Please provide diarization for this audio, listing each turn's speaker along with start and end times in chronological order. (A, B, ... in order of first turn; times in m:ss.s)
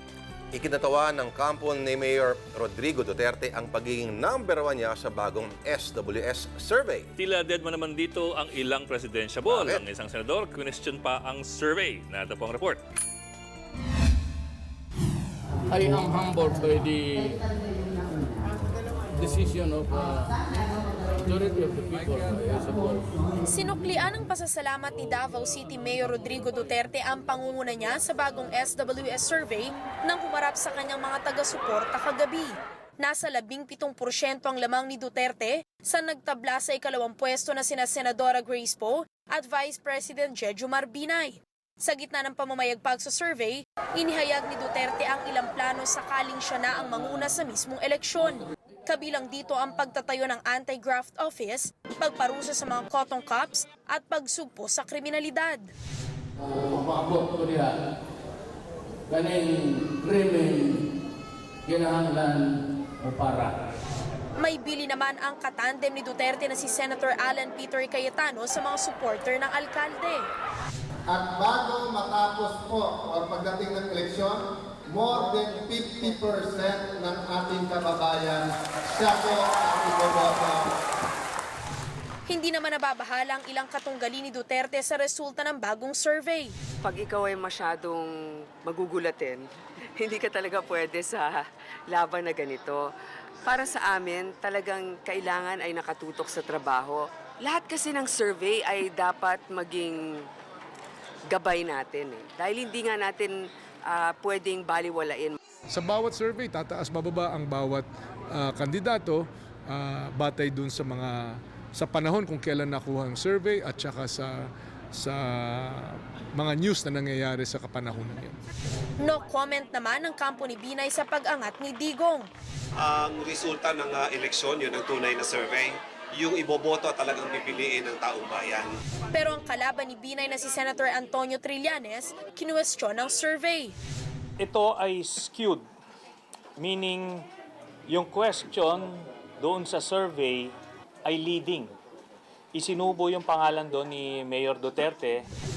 0:00.5-0:07.1 A
0:07.2-0:12.8 B
0:09.4-0:09.8 A
0:15.7-0:17.4 C
0:19.1-0:20.4 C
0:21.1-0:23.3 C
0:23.4-0:55.7 D
0:56.4-0:57.7 C
0:59.1-1:00.8 C
1:01.6-1:02.5 C
1:03.0-1:03.6 C
1:04.4-1:10.3 D
1:11.1-1:20.7 E
1:22.3-1:26.5 D
1:26.8-1:28.1 F
1:28.6-1:29.4 F
1:30.0-1:32.8 F
1:33.4-1:40.0 F
1:41.3-1:43.3 F
1:43.9-1:45.4 F
1:45.7-1:54.4 G
1:55.0-1:58.4 G
1:59.0-2:02.3 D
2:02.8-2:08.8 H
2:09.1-2:13.8 D
2:14.4-2:15.6 I
2:16.6-2:17.3 I
2:17.9-2:20.5 I
2:21.0-2:21.7 I
2:22.5-2:25.2 I